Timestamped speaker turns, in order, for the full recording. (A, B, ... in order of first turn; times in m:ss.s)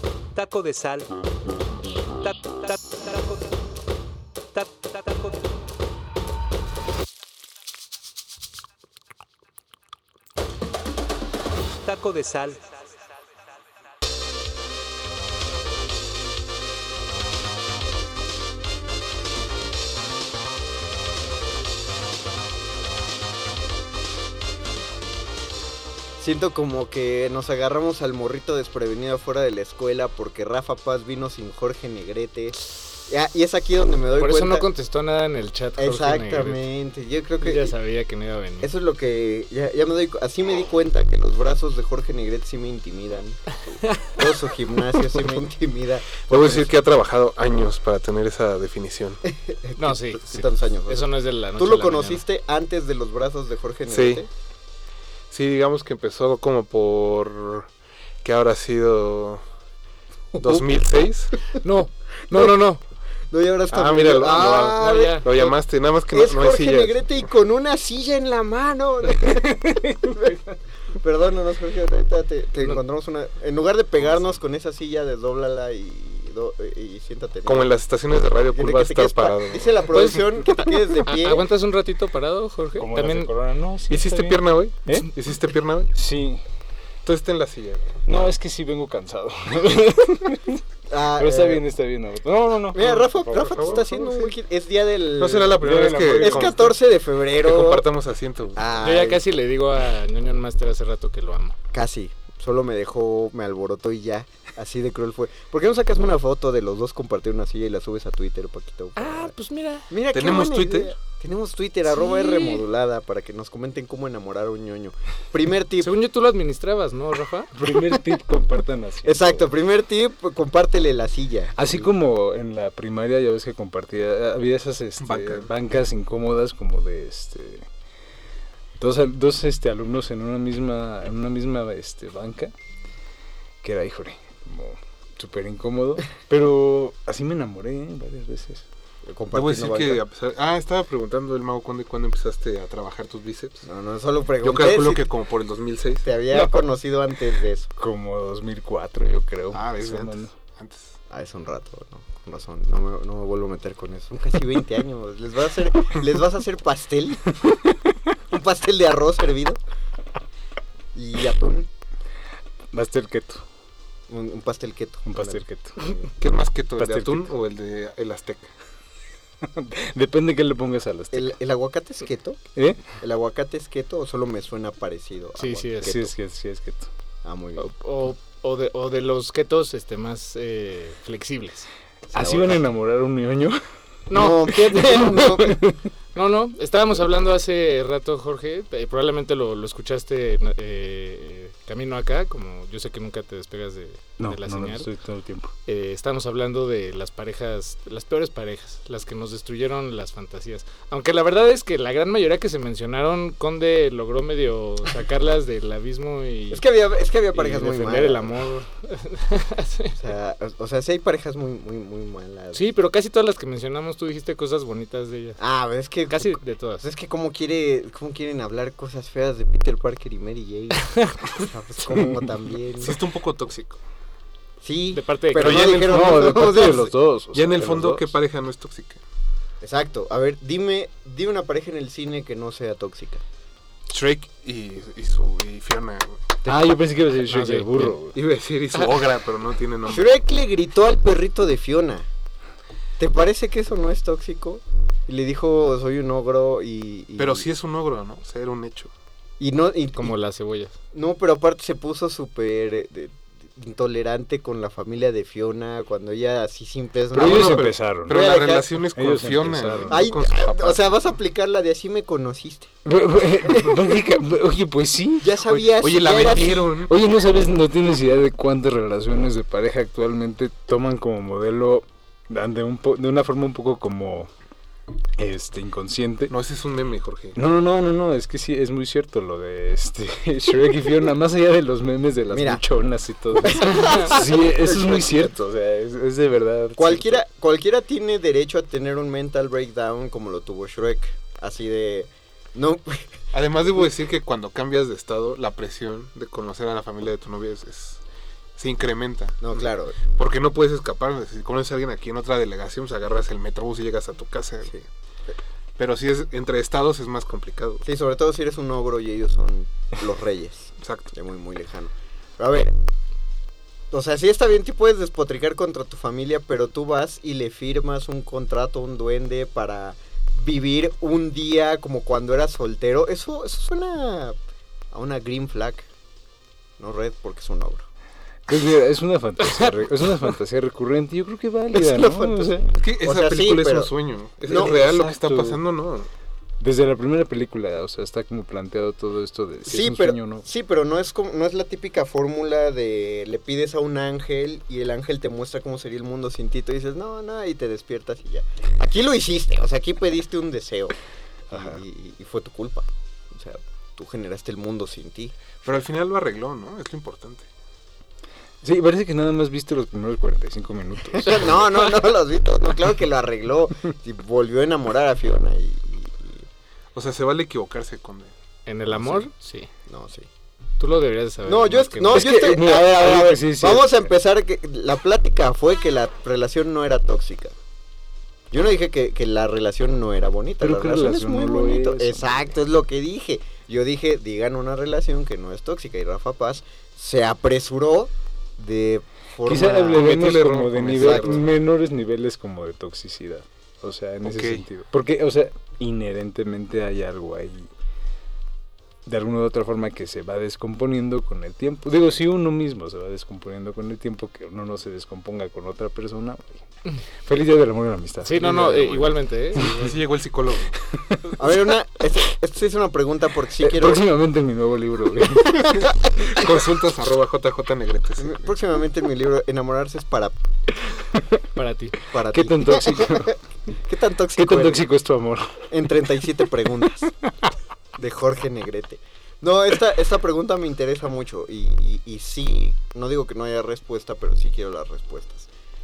0:00.3-0:01.2 A
0:02.2-0:03.6 A
0:04.5-0:05.5 A
0:11.8-0:13.0 A
0:26.2-0:34.7 B
0:34.1-0:36.6 C
0:35.8-0:37.7 B
0:37.4-0:38.7 C
0:38.6-0:46.7 B
0:43.8-0:44.2 C
0:46.3-0:49.2 D
0:49.3-0:54.3 B
0:49.8-0:52.2 C
0:53.9-0:54.2 D
0:55.3-0:57.7 D
0:58.2-0:59.4 D
1:00.3-1:00.7 B
1:00.4-1:01.4 D
1:01.6-1:02.8 C
1:03.3-1:05.6 B
1:03.7-1:07.1 D
1:04.2-1:05.2 C
1:06.1-1:17.8 B
1:17.4-1:20.1 D
1:18.5-1:21.4 B
1:19.9-1:20.4 C
1:20.9-1:23.3 C
1:22.8-1:25.1 E
1:23.9-1:25.9 D
1:25.9-1:26.4 E
1:27.0-1:28.0 D
1:28.0-1:30.6 E
1:30.9-1:31.6 B
1:31.1-1:33.9 E
1:32.7-1:35.6 B
1:33.3-1:34.4 D
1:35.2-1:36.8 D
1:35.6-1:36.7 E
1:36.1-1:37.8 B
1:37.4-1:38.6 D
1:38.5-1:39.2 B
1:38.8-1:41.6 C
1:41.7-1:49.3 B
1:49.0-1:49.9 C
1:49.9-1:55.9 B
1:50.1-1:50.9 D
1:51.9-1:52.6 C
1:55.8-1:57.5 C
1:57.5-1:59.5 E
1:59.0-2:01.6 B
2:01.6-2:07.7 E
2:05.0-2:05.5 D
2:08.8-2:12.5 E
2:13.6-2:18.6 E
2:19.0-2:20.0 B
2:19.3-2:23.6 D
2:23.6-2:25.0 B
2:24.4-2:26.1 D
2:26.0-2:27.7 B
2:27.8-2:30.3 E
2:29.5-2:31.0 D
2:31.1-2:37.4 B
2:38.3-2:39.6 B
2:40.9-2:41.7 B
2:42.7-2:43.4 E
2:44.1-2:46.1 B
2:45.0-2:45.9 E
2:46.2-2:48.5 D
2:46.8-2:47.3 E
2:49.4-2:51.3 E
2:51.1-2:52.4 B
2:52.5-2:52.8 E
2:52.9-2:56.1 B
2:55.4-2:56.0 C
2:55.8-2:56.9 E
2:57.2-2:57.7 B
2:57.6-3:01.7 C
3:02.1-3:02.6 B
3:02.1-3:03.6 E
3:04.1-3:04.6 C
3:04.1-3:05.6 B
3:04.5-3:05.8 E
3:06.1-3:14.9 C
3:14.2-3:15.5 E
3:15.6-3:26.6 C
3:26.5-3:28.4 B
3:27.3-3:30.0 C
3:30.0-3:32.6 B
3:32.5-3:35.4 C
3:35.4-3:43.0 B
3:36.1-3:36.8 C
3:40.8-3:41.1 C
3:42.8-3:43.8 D
3:44.6-3:46.9 B
3:44.9-3:45.7 C
3:45.4-3:46.6 D
3:45.4-3:48.1 E
3:47.3-3:49.0 D
3:49.6-3:53.2 B
3:53.9-3:56.2 D
3:56.4-3:58.2 E
3:57.3-3:57.9 C
3:58.1-4:00.1 D
3:59.9-4:02.1 B
4:03.0-4:07.4 B
4:07.2-4:08.9 D
4:09.4-4:10.1 B
4:10.0-4:10.7 C
4:10.9-4:18.8 B
4:17.1-4:18.2 E
4:17.1-4:20.9 D
4:18.9-4:20.0 E
4:19.9-4:22.7 B
4:22.8-4:25.5 E
4:23.5-4:23.9 B
4:25.2-4:26.7 B
4:25.5-4:26.9 D
4:26.8-4:34.3 E
4:35.2-4:36.3 E
4:36.3-4:37.4 D
4:37.3-4:47.2 E
4:42.3-4:42.6 B
4:43.4-4:45.3 B
4:43.8-4:44.1 C
4:46.8-4:53.1 B
4:53.3-4:58.0 D
4:58.6-5:04.7 D
4:59.4-5:00.0 B
5:05.8-5:07.8 D
5:07.8-5:12.8 B
5:10.8-5:11.1 D
5:13.9-5:24.4 B
5:24.9-5:25.9 B
5:26.8-5:27.8 B
5:28.5-5:32.7 E
5:29.4-5:29.7 C
5:31.7-5:33.9 B
5:32.7-5:36.1 D
5:34.5-5:34.8 B
5:34.5-5:35.6 E
5:36.6-5:40.4 E
5:39.7-5:51.0 B
5:51.5-5:55.8 B
5:51.5-5:51.8 E
5:55.6-5:57.5 D
5:58.6-6:01.8 E
6:01.1-6:06.4 B
6:06.9-6:08.3 D
6:08.6-6:09.7 C
6:09.9-6:10.3 B
6:10.8-6:12.3 C
6:11.4-6:17.5 B
6:12.1-6:14.1 E
6:18.5-6:30.2 B
6:20.6-6:22.5 E
6:29.4-6:37.7 E
6:29.9-6:31.4 D
6:30.9-6:31.4 B
6:34.2-6:34.6 D
6:39.0-6:46.6 E
6:47.2-6:49.7 E
6:48.2-6:50.0 C
6:49.6-6:50.8 D
6:50.9-6:51.6 E
6:51.4-6:54.0 B
6:53.6-6:55.8 E
6:55.3-6:56.4 B
6:56.2-6:58.4 D
6:58.2-7:00.4 B
7:01.5-7:02.0 C
7:02.1-7:04.8 B
7:02.3-7:03.3 E
7:04.4-7:05.7 E
7:05.7-7:07.1 B
7:08.0-7:15.5 B